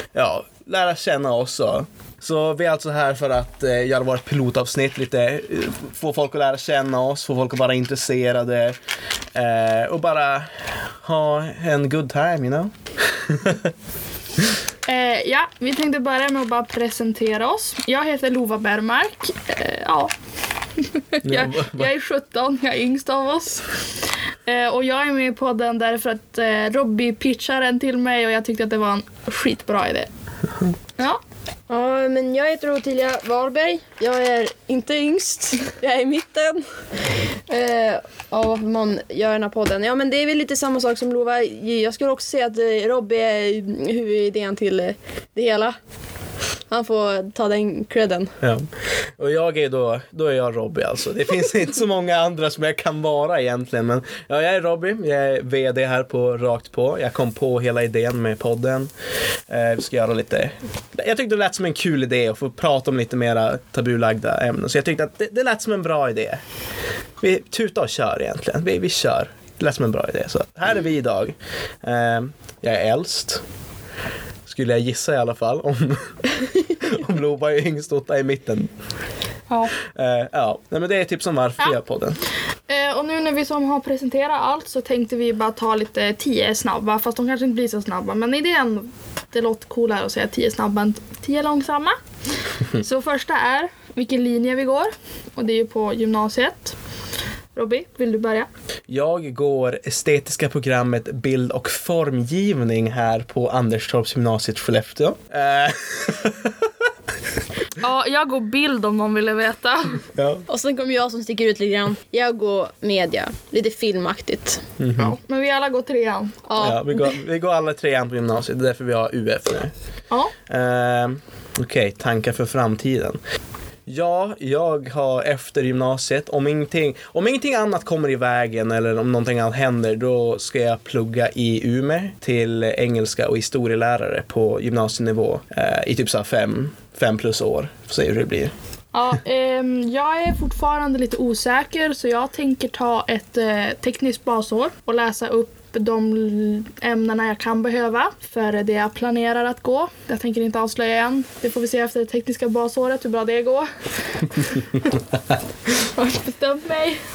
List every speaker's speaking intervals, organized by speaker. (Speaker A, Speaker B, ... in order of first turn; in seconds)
Speaker A: 0.1-8.8, 9.3-13.7, 21.2-21.9, 48.4-48.7, 49.2-58.9, 59.5-66.4, 67.2-73.4, 74.5-78.7, 79.9-82.2, 98.9-106.7, 110.1-110.5, 114.8-115.2, 116.6-119.7, 120.5-123.2, 123.9-138.5
Speaker B: 14.9-20.1, 20.9-23.7, 24.5-30.1, 82.7-92.0, 92.7-96.8, 97.5-98.5, 107.8-110.0, 115.0-116.4, 138.9-153.7, 154.2-154.9, 155.8-157.0
Speaker C: 31.7-45.8, 46.7-48.3, 110.5-114.6, 116.5-117.2